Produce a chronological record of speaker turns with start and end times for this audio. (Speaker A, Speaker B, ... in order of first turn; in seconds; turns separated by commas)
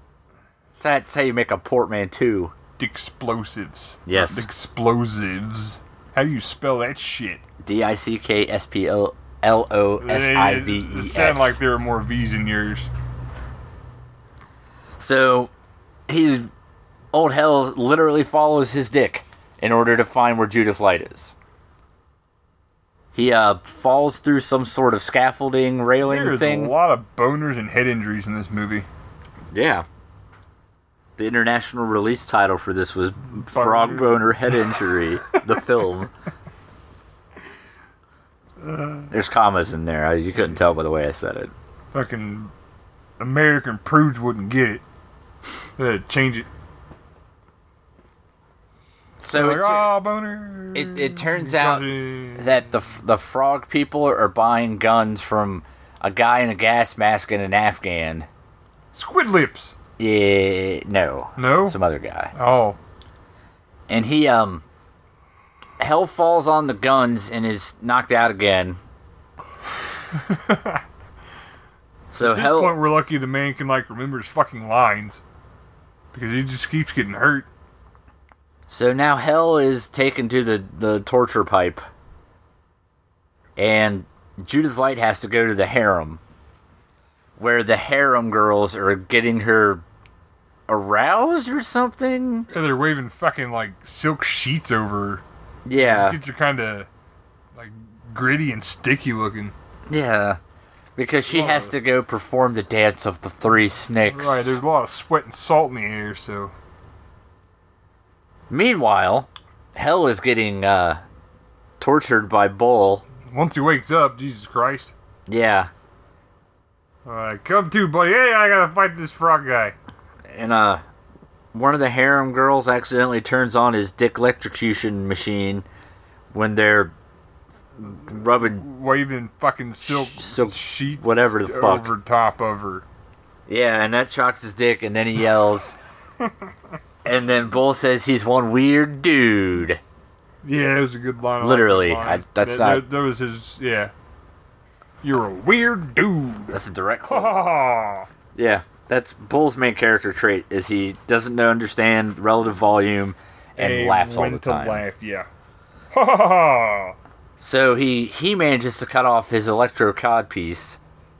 Speaker A: 0.8-2.5, Speaker B: 2.8-7.4, Speaker A: 4.0-4.5, Speaker A: 7.6-11.6, Speaker B: 10.0-12.9, Speaker A: 15.0-15.5, Speaker A: 16.1-16.5, Speaker A: 17.1-21.3, Speaker A: 23.1-26.8, Speaker B: 26.0-28.9, Speaker A: 29.5-29.8, Speaker A: 31.2-36.1, Speaker B: 33.5-34.8, Speaker B: 35.3-35.6, Speaker B: 38.6-39.1, Speaker A: 39.1-41.5, Speaker B: 41.9-42.5, Speaker B: 43.2-44.8, Speaker B: 45.8-46.5, Speaker A: 49.2-49.9, Speaker B: 49.3-52.7, Speaker A: 50.7-58.3, Speaker B: 58.9-59.8, Speaker A: 60.0-62.3, Speaker B: 61.4-61.8, Speaker B: 62.3-62.8, Speaker A: 63.9-64.6, Speaker A: 65.8-68.8, Speaker B: 70.1-70.8, Speaker A: 72.1-72.8, Speaker B: 72.2-75.2, Speaker B: 76.1-77.5, Speaker A: 78.7-81.8, Speaker A: 83.6-86.2, Speaker A: 87.4-89.8, Speaker A: 90.7-92.5, Speaker B: 92.5-95.2, Speaker A: 95.7-96.2, Speaker B: 95.8-96.9, Speaker B: 97.5-99.5, Speaker A: 99.9-100.4, Speaker A: 101.0-104.6, Speaker B: 101.3-101.7, Speaker B: 104.1-106.5, Speaker A: 108.5-111.0, Speaker A: 111.8-113.0, Speaker B: 113.2-114.9, Speaker A: 115.3-115.7, Speaker B: 117.0-119.7, Speaker A: 120.3-120.8, Speaker A: 121.5-125.6, Speaker A: 126.3-126.9, Speaker A: 127.8-128.7, Speaker B: 128.4-132.8, Speaker A: 129.8-131.9, Speaker A: 133.5-135.8, Speaker B: 136.2-136.5, Speaker A: 137.0-139.8, Speaker B: 140.4-143.9, Speaker A: 141.4-142.8, Speaker B: 145.0-148.1, Speaker A: 146.5-147.4, Speaker A: 148.3-154.8, Speaker B: 153.6-155.3, Speaker B: 155.9-156.9, Speaker A: 157.4-160.8